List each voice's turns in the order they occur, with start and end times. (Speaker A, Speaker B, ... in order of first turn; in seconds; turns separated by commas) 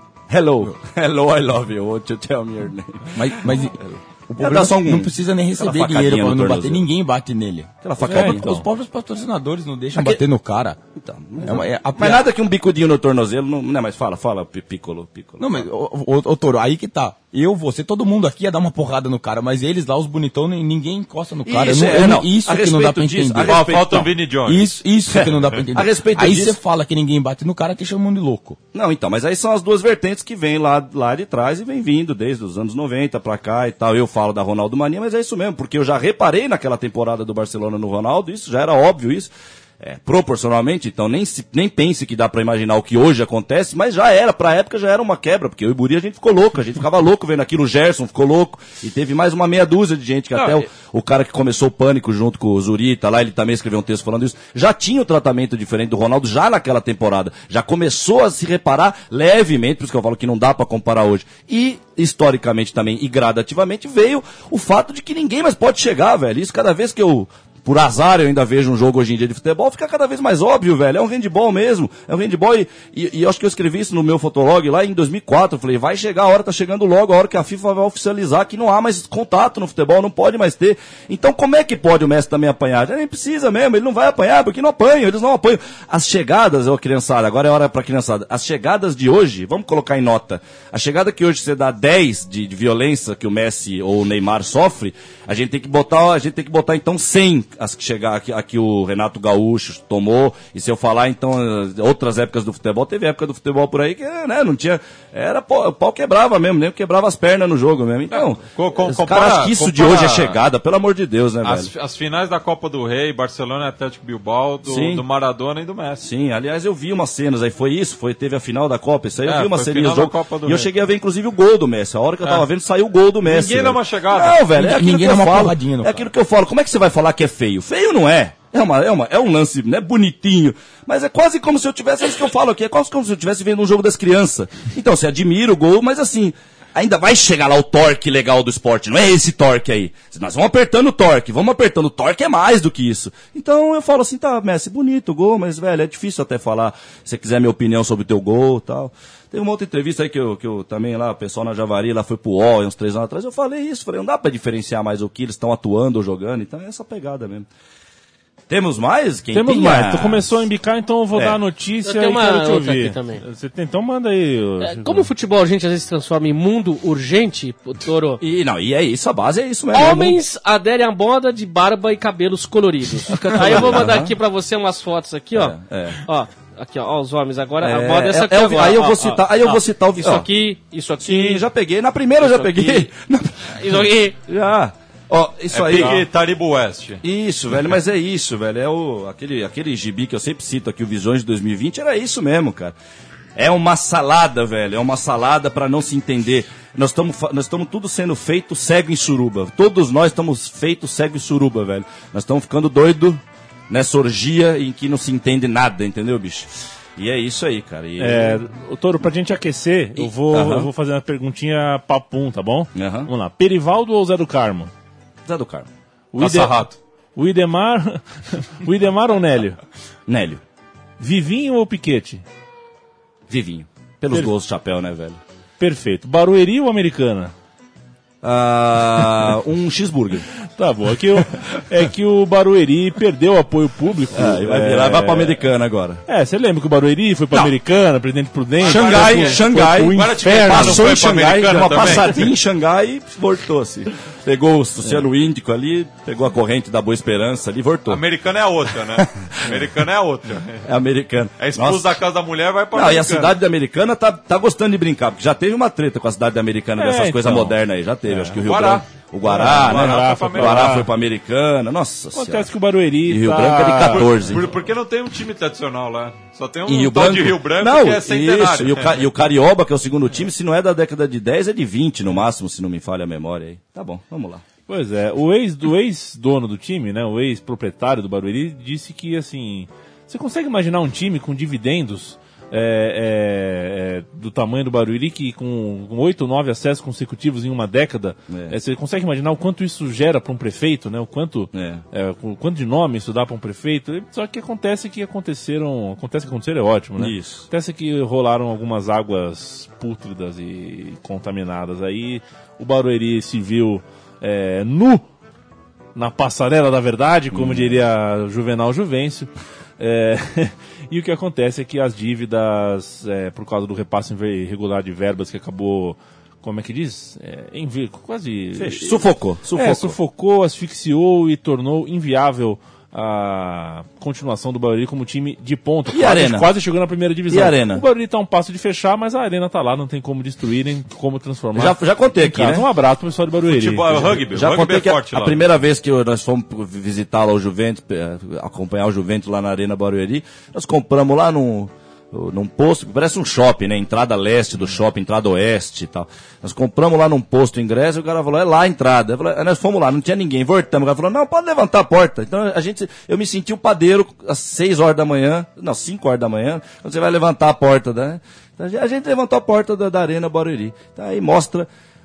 Speaker A: 0.3-3.9, Speaker B: 3.1-10.8, Speaker A: 4.4-6.9, Speaker A: 7.8-8.6, Speaker C: 8.1-8.7, Speaker A: 9.9-10.2, Speaker A: 10.9-15.7, Speaker B: 11.4-12.3, Speaker B: 15.4-28.6, Speaker A: 21.4-24.1, Speaker D: 23.4-25.6, Speaker A: 25.1-26.6, Speaker A: 28.7-111.7, Speaker D: 108.1-110.4, Speaker D: 111.4-116.1, Speaker A: 114.6-115.0, Speaker A: 116.0-157.5, Speaker D: 119.2-120.7, Speaker D: 123.2-124.5, Speaker B: 124.5-126.1, Speaker A: 158.5-160.4, Speaker C: 159.3-165.1, Speaker A: 161.1-161.4, Speaker E: 161.8-163.2, Speaker E: 164.6-168.2, Speaker A: 168.2-170.2, Speaker E: 169.7-181.4, Speaker A: 173.1-174.2, Speaker A: 175.3-176.0, Speaker A: 177.6-180.3, Speaker A: 181.0-186.1, Speaker E: 182.2-182.9, Speaker E: 183.5-184.1, Speaker D: 185.5-187.0, Speaker A: 187.0-192.8, Speaker A: 193.3-208.4, Speaker C: 208.0-214.7, Speaker A: 210.0-210.7, Speaker A: 212.7-213.1, Speaker A: 215.2-215.7, Speaker C: 216.1-216.6, Speaker D: 216.2-216.8, Speaker C: 217.2-219.6, Speaker A: 220.1-220.4, Speaker C: 221.0-222.2, Speaker A: 223.3-225.2, Speaker C: 225.6-227.3, Speaker A: 228.2-230.3, Speaker C: 230.6-235.5, Speaker A: 234.1-236.0, Speaker C: 236.1-241.2, Speaker D: 238.6-242.3, Speaker A: 238.6-248.0, Speaker D: 247.9-250.7, Speaker A: 248.9-249.7, Speaker A: 250.6-252.0, Speaker D: 251.4-253.4, Speaker A: 252.7-262.5, Speaker C: 256.8-258.4, Speaker D: 258.4-260.8, Speaker C: 259.2-260.9, Speaker C: 262.1-264.1, Speaker A: 263.0-264.5, Speaker D: 263.9-269.0, Speaker A: 266.6-274.4, Speaker C: 274.7-305.0, Speaker A: 288.3-288.6, Speaker A: 291.5-291.8, Speaker A: 297.0-297.5, Speaker C: 305.9-334.2, Speaker A: 307.3-307.8, Speaker A: 318.6-320.0, Speaker A: 325.9-326.5, Speaker A: 327.3-327.8, Speaker A: 331.5-332.7, Speaker D: 333.5-335.5, Speaker A: 334.0-361.7